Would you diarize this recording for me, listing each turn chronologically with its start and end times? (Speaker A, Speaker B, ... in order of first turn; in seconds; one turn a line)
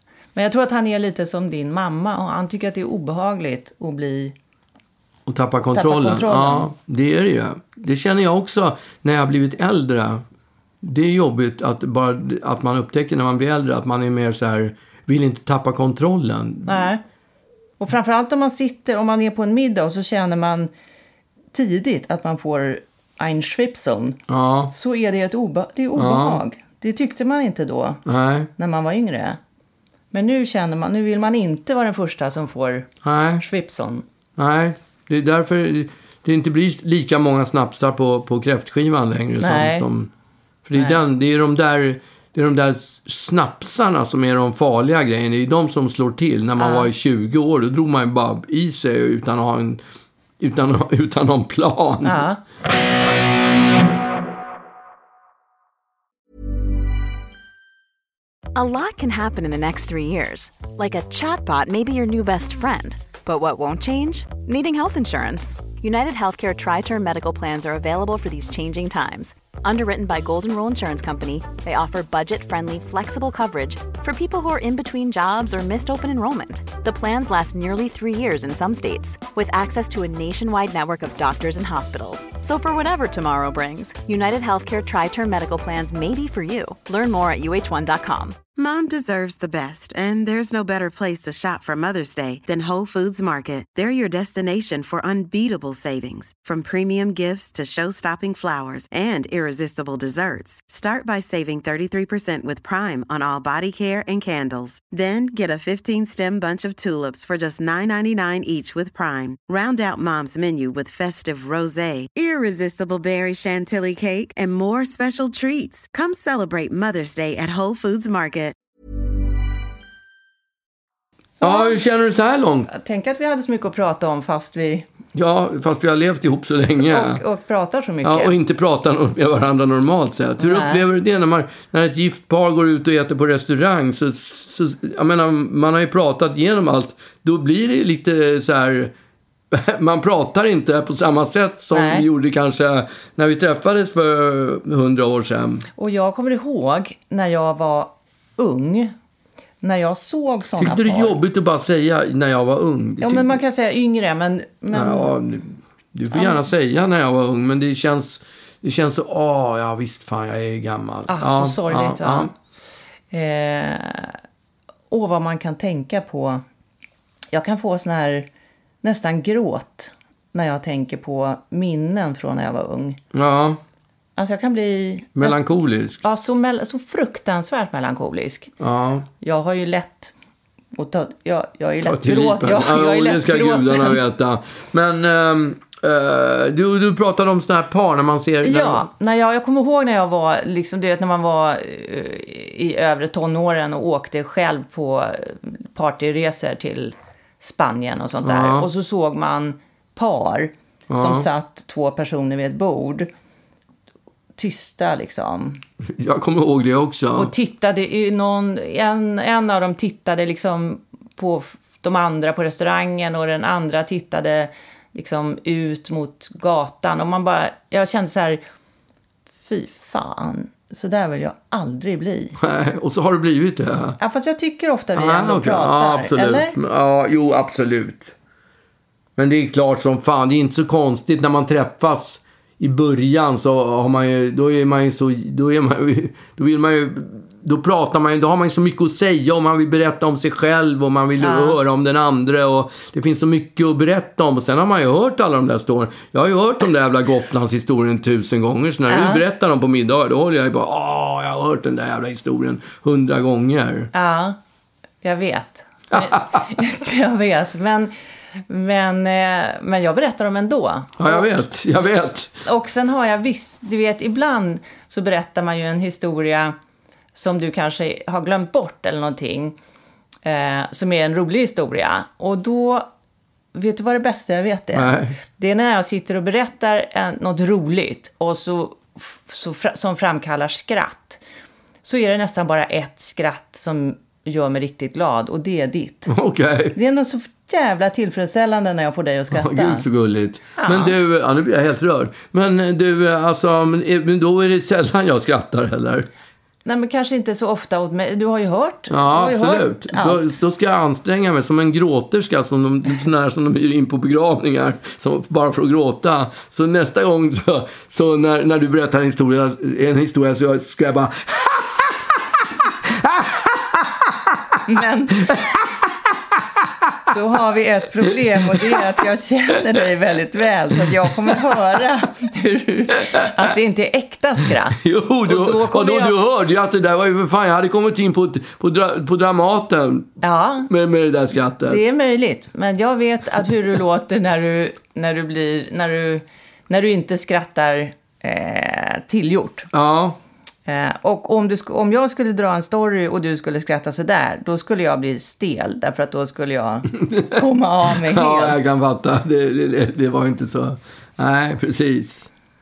Speaker A: 0.3-4.3
Speaker B: 5.2-10.2
Speaker A: 5.7-6.7
Speaker B: 10.8-16.9
Speaker A: 16.6-17.0
Speaker A: 17.8-20.7
Speaker A: 21.5-28.0
Speaker B: 24.3-24.7
Speaker B: 25.9-26.4
Speaker B: 28.0-28.5
Speaker A: 28.6-29.4
Speaker A: 30.1-34.0
Speaker B: 33.0-33.4
Speaker B: 34.4-40.1
Speaker A: 39.4-39.9
Speaker B: 40.6-49.8
Speaker A: 46.6-46.9
Speaker B: 50.4-52.2
Speaker A: 52.0-52.4
Speaker C: 58.5-88.4
Speaker D: 88.5-118.5
Speaker A: 121.4-121.9
Speaker B: 121.4-122.7
Speaker A: 122.7-124.8
Speaker B: 125.1-127.2
Speaker A: 126.8-128.3
Speaker B: 128.0-138.9
Speaker A: 130.4-130.8
Speaker B: 139.5-145.7
Speaker A: 141.7-142.1
Speaker A: 145.8-148.9
Speaker A: 149.6-151.2
Speaker B: 150.6-153.4
Speaker A: 153.0-155.2
Speaker B: 154.7-162.3
Speaker A: 156.1-156.4
Speaker A: 161.1-162.3
Speaker A: 163.1-164.2
Speaker A: 164.9-166.4
Speaker A: 167.3-168.3
Speaker A: 168.8-173.0
Speaker B: 173.1-173.6
Speaker A: 174.2-175.4
Speaker B: 175.2-176.0
Speaker A: 176.0-178.5
Speaker B: 178.6-179.1
Speaker A: 179.2-180.1
Speaker A: 180.7-184.0
Speaker B: 181.8-188.9
Speaker A: 188.4-203.1
Speaker B: 198.2-198.7
Speaker B: 200.9-201.3
Speaker A: 204.3-205.6
Speaker B: 205.8-207.3
Speaker A: 207.1-218.4
Speaker A: 219.4-222.4
Speaker B: 222.4-224.0
Speaker A: 224.0-226.6
Speaker B: 224.9-228.1
Speaker B: 229.2-253.9
Speaker A: 241.2-241.6
Speaker A: 248.9-249.2
Speaker A: 253.9-254.4
Speaker A: 255.0-257.9
Speaker B: 255.9-256.4
Speaker A: 258.5-261.4
Speaker B: 261.0-262.3
Speaker A: 262.4-266.5
Speaker A: 267.1-269.6
Speaker A: 270.2-272.9
Speaker A: 273.5-281.2
Speaker B: 274.7-275.2
Speaker A: 281.8-286.1
Speaker B: 286.1-286.8
Speaker A: 286.7-289.9
Speaker B: 289.3-296.1
Speaker A: 290.6-290.9
Speaker A: 296.6-300.4
Speaker B: 298.9-314.6
Speaker A: 314.6-315.6
Speaker B: 315.2-317.1
Speaker A: 317.1-326.2
Speaker B: 318.1-318.9
Speaker B: 320.7-321.7
Speaker B: 324.8-330.1
Speaker A: 330.2-330.7
Speaker B: 330.7-331.8
Speaker A: 331.6-339.7
Speaker B: 339.7-340.2
Speaker A: 340.6-348.6
Speaker B: 347.1-352.3